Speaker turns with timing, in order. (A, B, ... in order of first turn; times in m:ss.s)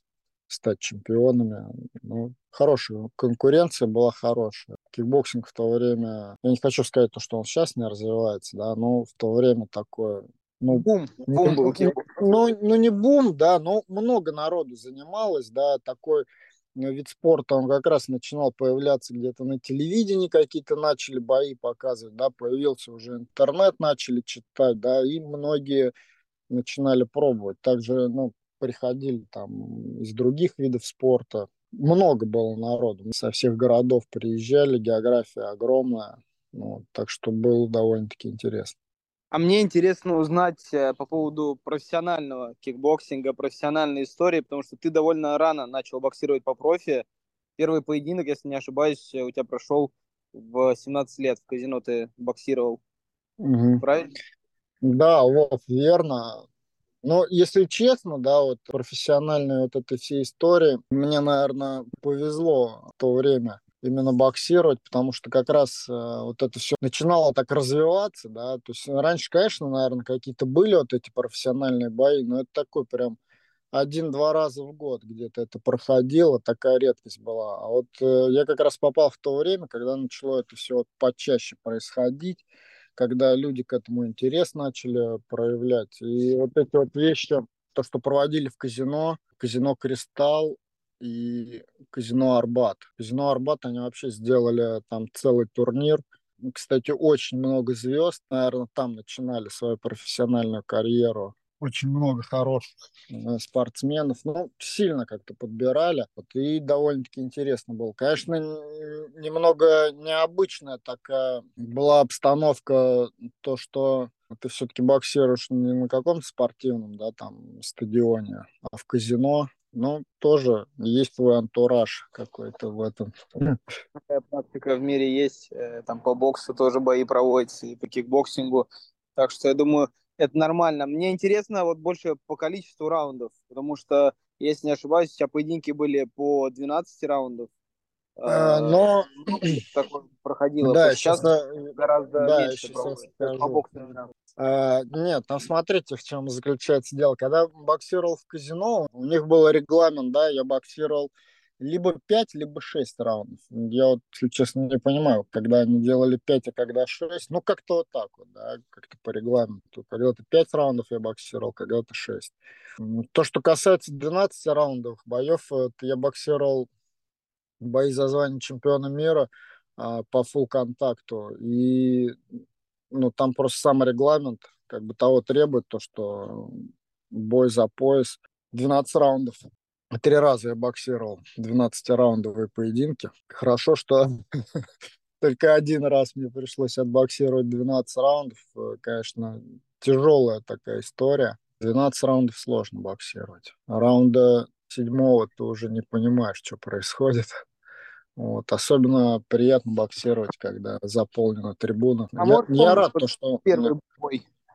0:00.5-0:25.9 A
0:10.7-0:12.0 B
0:26.5-0:38.7 A
0:39.3-0:47.0 B
0:47.6-0:52.8 B
0:53.4-0:53.8 A
0:53.8-0:54.1 B
0:54.8-0:56.4 A
0:57.0-1:13.2 A
1:13.7-1:22.4 A
1:23.0-2:03.6 A
2:04.1-2:17.5 B
2:18.2-2:18.9 B
2:18.2-2:19.4 A
2:19.5-2:21.2 B
2:20.6-2:23.6 A
2:21.8-2:24.1 B
2:24.4-2:46.7 A
2:47.6-2:52.2 A
2:52.9-3:04.1 A
3:05.2-3:17.3 A
3:18.2-3:23.7 A
3:22.2-3:24.2 B